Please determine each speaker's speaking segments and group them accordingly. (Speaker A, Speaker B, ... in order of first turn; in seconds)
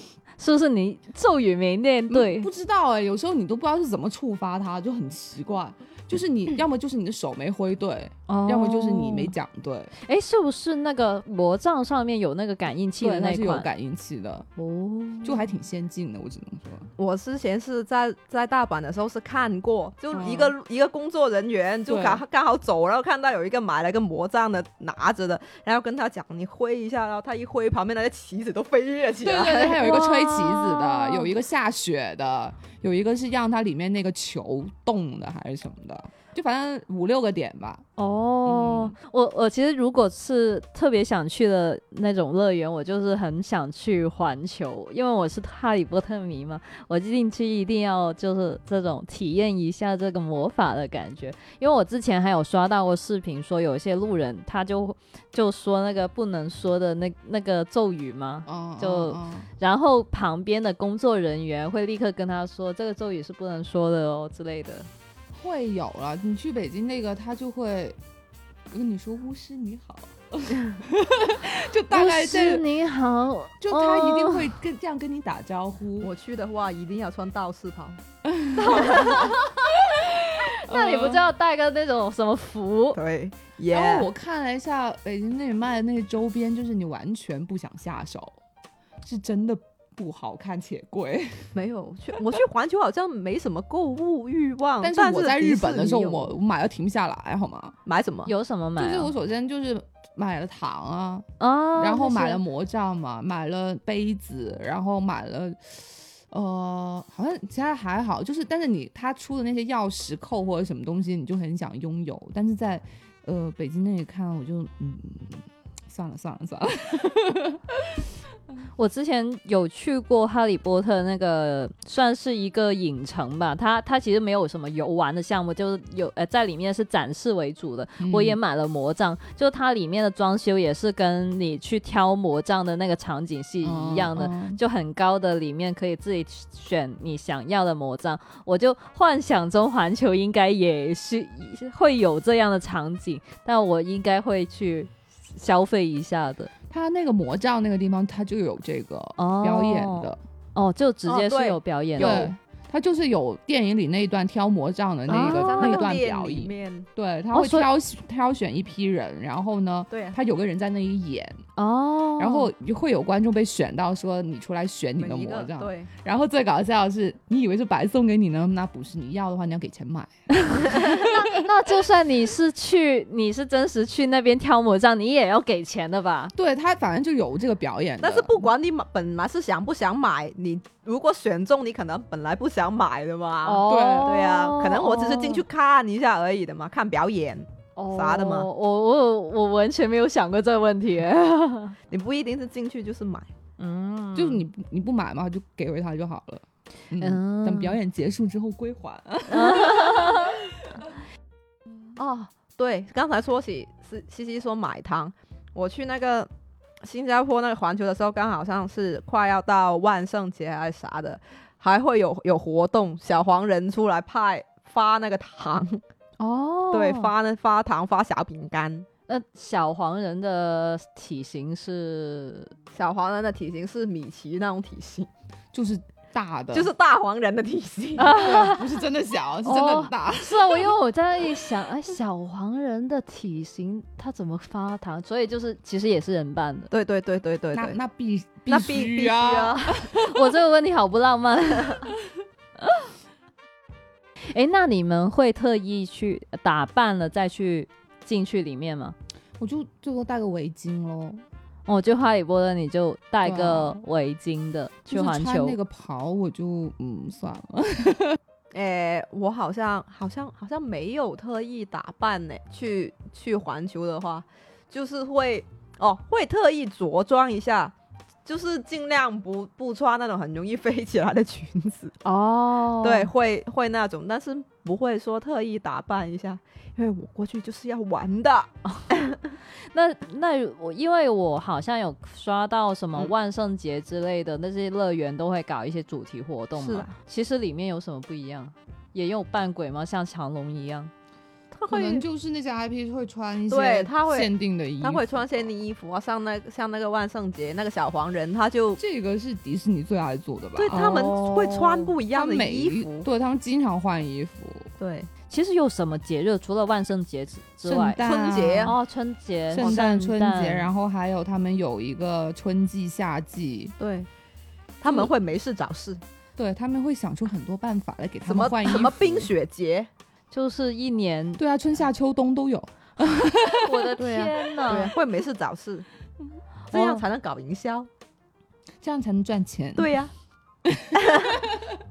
Speaker A: 0.4-2.5, 8.3-9.3, 10.0-13.7, 14.6-15.3, 29.7-31.3, 38.0-64.9, 71.9-74.5, 78.6-79.7, 80.3-83.0, 98.2-99.1, 101.4-102.4, 118.8-146.5, 149.2-152.3, 155.1-155.8, 157.3-157.7, 161.6-162.5, 170.5-176.3, 183.4-185.4, 187.8-191.8, 193.6-194.4, 197.0-197.8, 199.3-200.4, 216.2-217.1, 219.1-222.5, 228.0-228.7, 229.4-236.7, 239.8-241.9, 244.3-248.9, 251.7-255.6, 272.0-273.1, 279.6-290.9, 300.7-301.0, 305.3-308.0, 308.6-310.7, 320.3-321.4, 323.5-324.9, 326.7-327.0
Speaker B: 2.1-9.9, 13.0-14.5, 15.2-16.9, 20.1-20.5, 21.9-22.2, 29.2-37.8, 38.4-38.9, 58.5-59.5, 65.3-68.0, 68.7-72.6, 73.6-76.1, 78.2-81.2, 83.7-88.4, 89.0-91.5, 94.8-97.8, 98.8-101.2, 101.8-118.0, 128.0-128.4, 133.6-134.6, 146.7-150.2, 152.0-161.4, 162.2-171.4, 176.3-178.4, 183.7-184.2, 194.1-200.3, 225.5-226.7, 228.1-230.7, 237.5-240.3, 249.4-251.2, 253.2-253.8, 254.9-258.2, 291.7-295.4, 298.8-304.7, 307.6-308.8, 309.5-313.7, 316.4-319.3, 321.4-323.9, 328.8-329.9, 330.6-331.6
Speaker C: 17.0-30.0, 76.0-78.0, 78.6-79.2, 82.9-84.1, 91.5-96.3, 97.8-98.3, 151.1-152.3, 155.1-156.9, 159.9-160.2, 165.0-165.9, 178.0-188.5, 191.9-193.3, 201.9-206.3, 206.8-215.8, 216.7-218.9, 222.7-225.1, 226.5-228.3, 236.7-237.8, 238.5-239.7, 258.5-267.7, 268.2-271.9, 272.8-279.2, 286.6-286.9, 291.5-292.0, 293.5-294.3, 294.8-298.8, 300.6-303.1, 304.8-305.1, 308.0-308.7, 313.8-314.1, 314.8-316.0, 318.2-319.9, 324.0-325.9, 326.7-327.9, 329.8-330.1, 330.9-331.4